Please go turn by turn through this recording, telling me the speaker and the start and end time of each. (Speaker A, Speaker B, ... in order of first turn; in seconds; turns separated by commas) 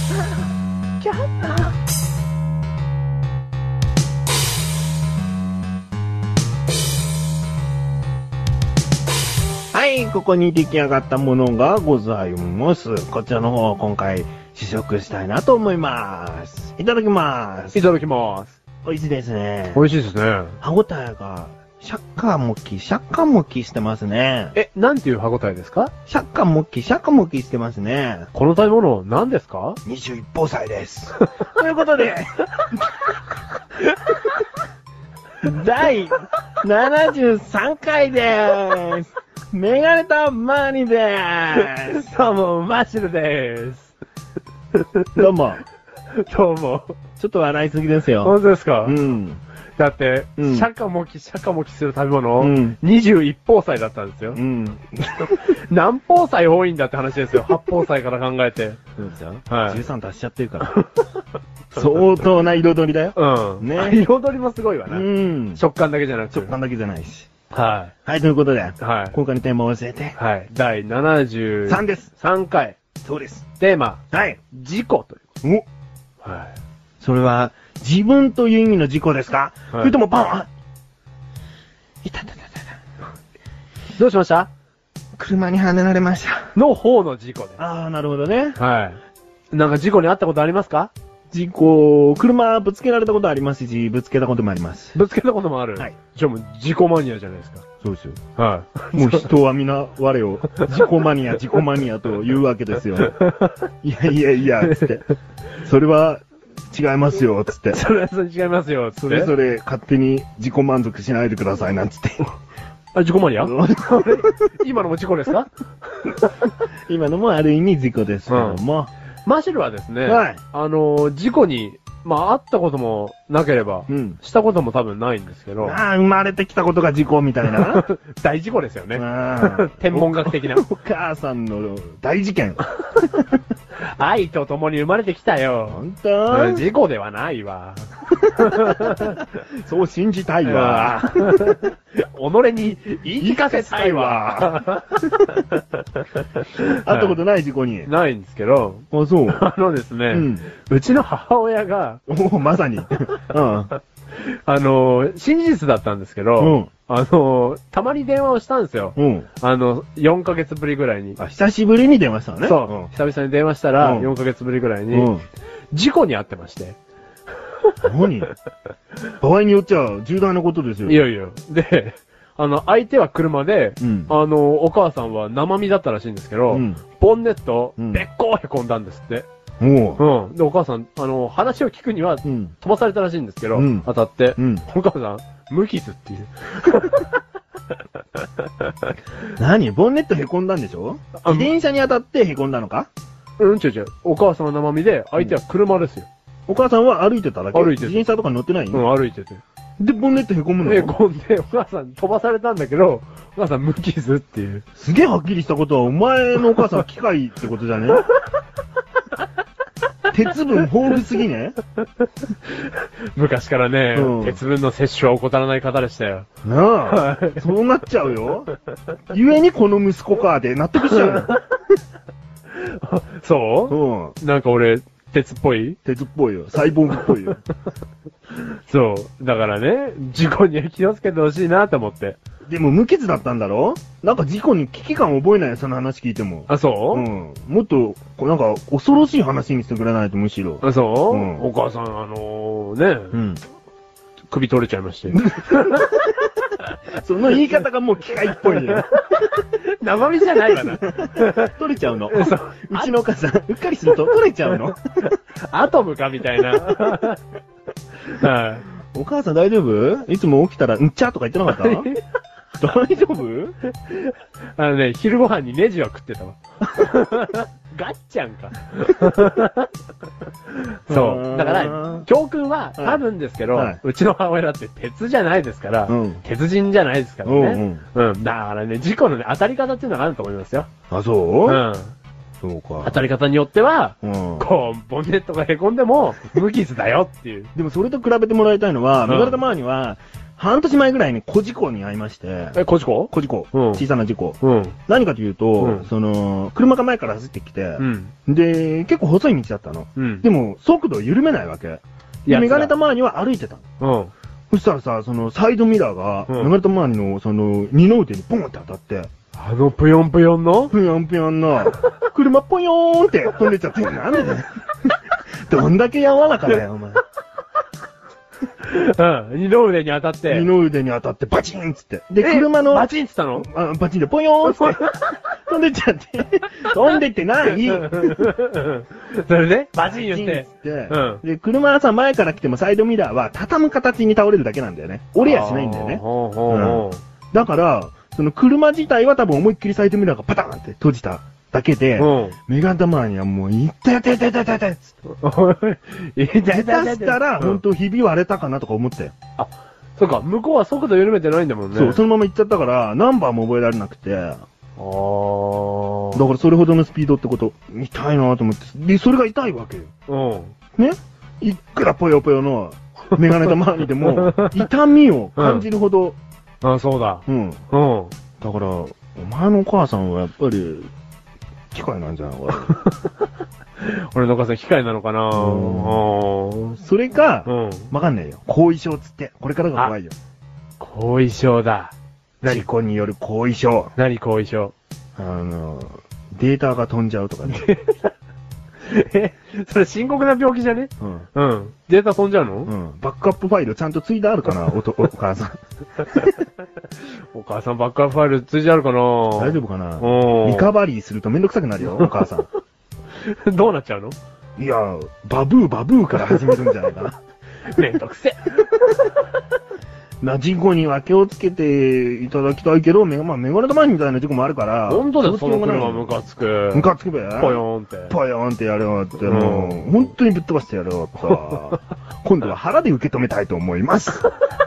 Speaker A: 1.0-1.7, Speaker B: 9.7-17.8, Speaker A: 17.7-18.6, Speaker B: 18.8-19.9, Speaker A: 19.7-20.6, Speaker B: 20.6-24.6, Speaker A: 24.6-25.9, Speaker B: 26.1-28.3, Speaker A: 28.3-29.8, Speaker B: 29.8-33.0, Speaker B: 35.4-42.0, Speaker A: 41.6-43.9, Speaker A: 44.8-45.3, Speaker B: 45.2-45.6, Speaker A: 46.2-46.9, Speaker B: 47.2-49.4, Speaker A: 48.2-49.0, Speaker A: 49.8-54.4, Speaker B: 50.4-50.7, Speaker B: 52.4-52.8, Speaker B: 54.3-55.5, Speaker A: 55.2-58.8, Speaker B: 59.0-60.8, Speaker A: 59.5-59.8, Speaker A: 60.7-61.0, Speaker B: 61.7-64.0, Speaker A: 63.2-66.5, Speaker B: 64.9-65.6, Speaker B: 66.3-67.3, Speaker A: 67.5-67.9, Speaker B: 68.0-70.2, Speaker A: 68.8-69.2, Speaker A: 70.2-72.8, Speaker B: 71.7-72.1, Speaker B: 73.0-73.5, Speaker A: 73.6-75.2, Speaker B: 74.1-74.4, Speaker A: 76.2-76.5, Speaker B: 77.0-80.5, Speaker B: 82.0-82.8, Speaker A: 84.0-84.5, Speaker B: 85.2-86.5, Speaker A: 86.5-87.6, Speaker B: 87.6-88.6, Speaker A: 88.6-89.0, Speaker A: 89.5-90.9, Speaker B: 91.3-95.0, Speaker A: 95.0-97.6, Speaker B: 97.8-98.2, Speaker A: 98.4-99.3, Speaker B: 98.9-103.1, Speaker A: 103.0-103.6, Speaker B: 103.8-105.0, Speaker A: 104.6-105.0, Speaker B: 105.6-107.8, Speaker A: 107.7-109.3, Speaker B: 109.0-112.3, Speaker A: 112.9-115.5, Speaker B: 113.4-114.3, Speaker A: 116.0-116.3, Speaker B: 116.9-118.9, Speaker A: 118.3-118.6, Speaker A: 119.2-125.8, Speaker B: 120.1-120.4, Speaker B: 123.9-124.2, Speaker B: 125.6-127.8, Speaker A: 127.5-130.6, Speaker B: 128.9-133.3, Speaker A: 133.8-139.2, Speaker B: 135.7-136.6, Speaker B: 138.3-141.7, Speaker A: 140.4-147.2, Speaker B: 143.2-145.4, Speaker B: 146.8-147.9, Speaker A: 147.8-152.0, Speaker B: 148.9-149.4, Speaker B: 150.1-150.5, Speaker B: 152.1-153.7, Speaker A: 154.2-161.2, Speaker B: 156.4-156.7, Speaker B: 159.0-159.3, Speaker B: 161.2-162.9, Speaker A: 162.4-165.1, Speaker B: 163.8-164.1, Speaker B: 164.9-165.2, Speaker A: 165.7-166.8, Speaker B: 167.8-168.3, Speaker B: 169.2-171.0, Speaker A: 170.8-179.2, Speaker B: 173.8-174.1, Speaker B: 176.5-176.8, Speaker B: 177.8-178.0, Speaker B: 179.6-180.0, Speaker A: 180.0-187.2, Speaker B: 182.2-182.5, Speaker B: 183.6-184.6, Speaker A: 188.2-188.9, Speaker B: 189.4-192.9, Speaker A: 191.2-191.5, Speaker A: 193.4-196.1, Speaker B: 196.5-198.8, Speaker A: 197.5-198.0, Speaker A: 198.7-199.4, Speaker B: 199.8-200.9, Speaker A: 200.6-204.7, Speaker B: 204.8-208.1, Speaker B: 210.1-211.6, Speaker A: 212.5-216.2, Speaker B: 213.9-214.4, Speaker B: 216.4-218.5, Speaker A: 216.9-217.4, Speaker B: 219.1-221.3, Speaker A: 220.9-221.4, Speaker A: 222.5-225.8, Speaker B: 223.7-224.2, Speaker B: 225.8-227.4, Speaker A: 228.5-232.2, Speaker B: 232.5-241.4, Speaker A: 236.5-237.1, Speaker A: 240.6-243.2, Speaker B: 243.1-243.4, Speaker A: 244.3-246.0, Speaker B: 245.1-246.1, Speaker B: 246.9-248.9, Speaker A: 248.5-249.0, Speaker A: 249.5-251.5, Speaker B: 250.5-254.8, Speaker A: 252.1-252.9, Speaker A: 254.5-257.2, Speaker A: 258.1-258.7, Speaker B: 258.9-261.9, Speaker A: 261.5-262.0, Speaker B: 262.6-263.6, Speaker A: 263.8-269.7, Speaker A: 270.5-280.7, Speaker B: 270.9-272.1, Speaker B: 272.8-273.8, Speaker B: 275.9-276.2, Speaker B: 277.2-277.8, Speaker B: 280.9-281.6, Speaker A: 281.4-281.9, Speaker B: 282.4-283.0, Speaker A: 282.8-287.5, Speaker B: 284.0-284.5, Speaker B: 287.6-292.6, Speaker A: 289.1-289.4, Speaker A: 292.6-293.8, Speaker B: 293.1-303.6, Speaker A: 294.4-294.8, Speaker A: 295.6-295.9, Speaker A: 297.8-298.1, Speaker A: 300.0-300.2, Speaker A: 302.2-302.7, Speaker A: 303.8-304.1, Speaker B: 304.5-309.1, Speaker A: 306.3-306.5, Speaker A: 309.4-310.8, Speaker B: 310.7-314.9, Speaker B: 315.5-317.0, Speaker A: 318.6-320.5, Speaker B: 320.3-328.3, Speaker A: 322.2-323.5, Speaker A: 324.4-324.9, Speaker A: 327.7-331.2, Speaker B: 329.8-344.9, Speaker A: 335.2-337.0, Speaker A: 342.0-342.4, Speaker A: 345.1-347.6, Speaker B: 346.5-349.1, Speaker A: 349.4-352.0, Speaker B: 351.7-354.4, Speaker A: 354.8-356.2, Speaker B: 356.1-359.9, Speaker A: 360.1-360.5, Speaker B: 360.8-366.2, Speaker A: 364.0-364.7, Speaker A: 365.4-365.7, Speaker A: 366.6-368.1, Speaker B: 367.3-367.6, Speaker B: 368.4-370.9, Speaker B: 371.7-372.8, Speaker A: 373.8-376.8, Speaker B: 375.3-376.0, Speaker B: 376.8-380.1, Speaker A: 377.4-377.9, Speaker A: 380.8-381.9, Speaker B: 382.4-383.9, Speaker A: 383.9-384.7, Speaker B: 385.2-387.7, Speaker A: 387.5-388.1, Speaker A: 388.9-392.7, Speaker B: 391.0-391.3, Speaker B: 392.7-395.6, Speaker B: 396.1-396.4, Speaker A: 397.1-400.7, Speaker B: 399.4-402.5, Speaker A: 401.9-402.1, Speaker A: 403.2-404.2, Speaker B: 404.6-407.2, Speaker A: 407.7-409.1, Speaker B: 410.2-416.1, Speaker A: 414.9-418.1, Speaker B: 416.7-424.3, Speaker A: 419.2-419.8